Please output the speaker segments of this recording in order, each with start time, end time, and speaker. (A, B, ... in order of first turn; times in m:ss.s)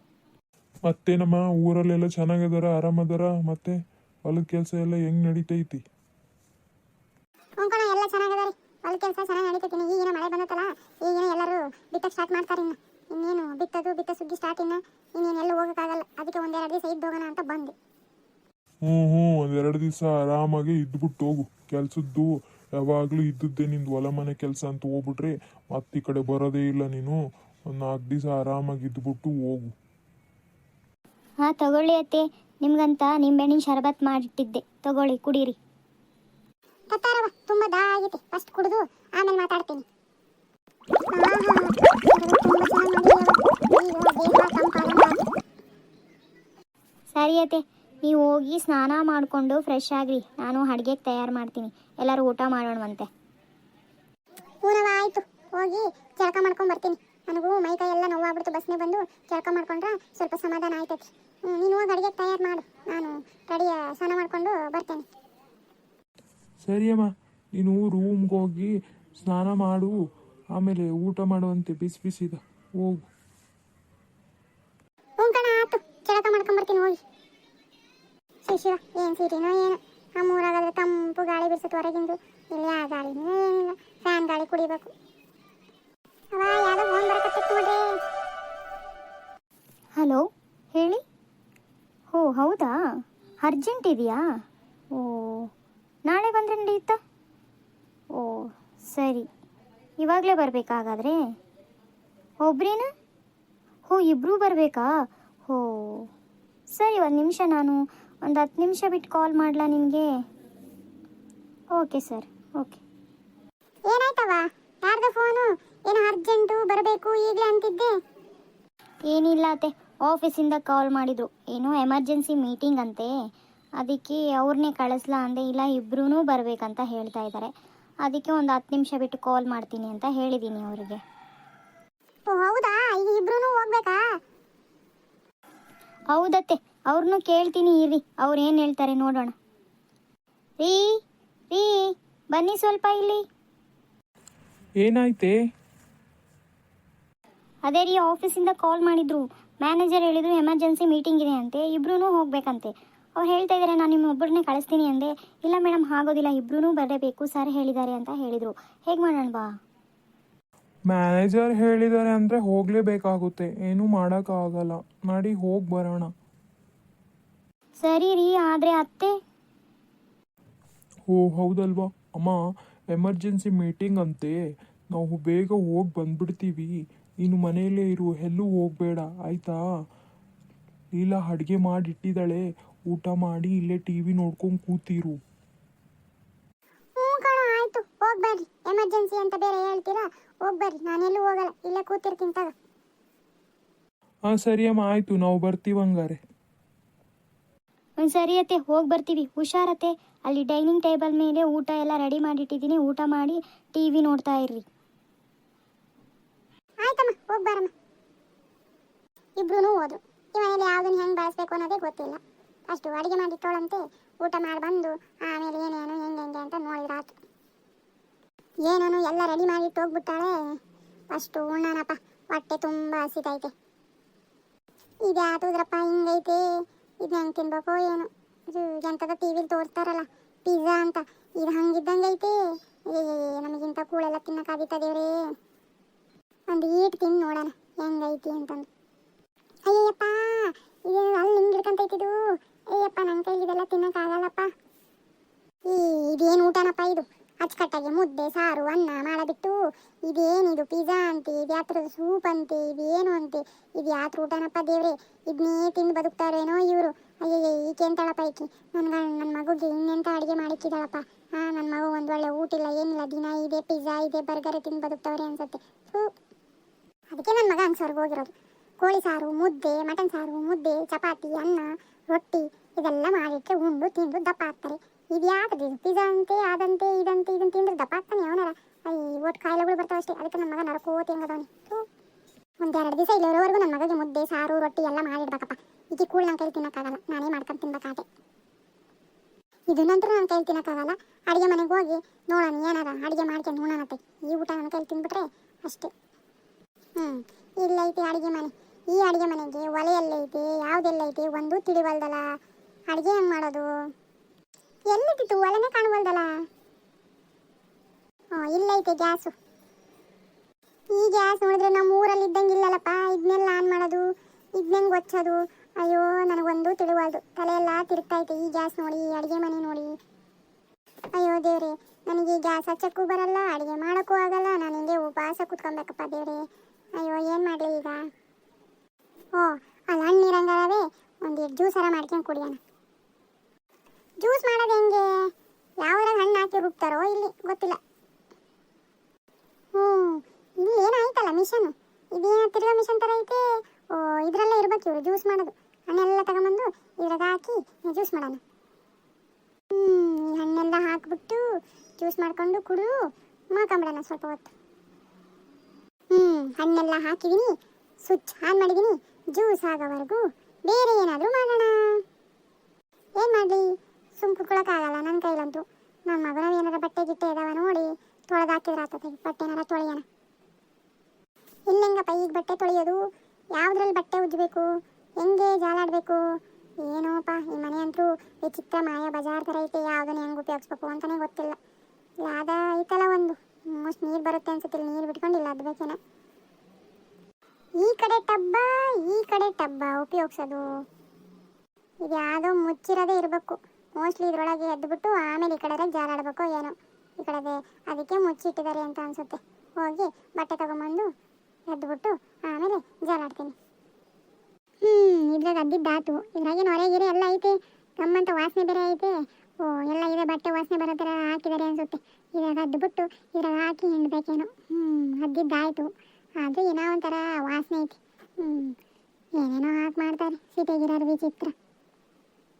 0:00.9-0:05.8 A
0:07.6-0:17.7 B
0:18.9-0:29.7 A
0:31.4-0:35.6 C
0:36.9-0:39.8 B
0:41.1-0:45.2 B
0:47.1-0:53.1 C
0:54.6-1:05.0 B
1:06.6-1:08.7 D
1:09.2-1:09.9 D
1:10.5-1:13.0 D
1:15.2-1:17.0 B
1:18.4-1:24.9 B
1:26.3-1:27.9 B
1:30.0-1:31.0 C
1:32.1-1:32.7 C
1:33.4-1:34.2 C
1:34.9-1:35.5 C
1:36.1-1:37.0 C
1:38.2-1:39.3 C
1:40.0-1:41.2 C
1:42.4-1:42.9 C
1:43.9-1:44.9 C
1:45.5-1:46.1 C
1:46.7-1:50.0 C
1:51.8-1:52.8 C
1:53.9-1:57.9 B
1:59.1-2:03.1 C
2:03.8-2:07.5 C
2:08.0-2:11.0 C
2:12.3-2:14.0 B
2:16.1-2:19.3 C
2:20.6-2:23.2 C
2:24.8-2:25.3 D
2:27.7-2:39.5 C
2:40.9-2:46.1 D
2:47.8-2:49.2 C
2:51.1-2:52.4 D
2:52.9-2:54.4 D
2:54.9-2:59.6 D
3:00.9-3:05.2 D
3:07.0-3:12.5 B
3:14.3-3:16.2 D
3:18.0-3:24.6 C
3:26.8-3:27.7 B
3:29.4-3:37.2 B
3:38.6-3:40.6 B
3:41.1-3:43.5 B
3:45.0-3:46.4 B
3:47.0-3:52.4 B
3:52.9-3:55.2 B
3:56.5-3:58.6 B
3:59.6-4:02.2 B
4:02.7-4:04.5 B
4:05.7-4:26.1 B
4:27.1-4:41.8 B
4:42.6-4:48.0 B
4:49.7-4:55.9 B
4:57.0-5:02.4 B
5:02.9-5:03.7 B
5:04.9-5:06.3 B
5:08.3-5:09.3 B
5:10.9-5:19.9 B
5:21.1-5:26.4 B
5:27.0-5:28.0 B
5:29.3-5:32.6 B
5:34.2-5:35.0 B
5:35.8-5:37.8 B
5:39.7-5:48.4 B
5:49.7-5:51.4 B
5:52.0-5:53.0 B
5:53.5-5:54.5 B
5:56.1-5:57.5 B
5:58.0-6:02.0 B
6:03.2-6:10.0 B
6:11.7-6:13.0 B
6:13.5-6:14.7 B
6:15.2-6:16.2 B
6:16.8-6:21.6 B
6:22.2-6:26.0 B
6:27.8-6:30.6 B
6:32.0-6:41.1 B
6:41.7-6:43.5 B
6:44.8-6:58.7 B
6:59.4-7:01.5 B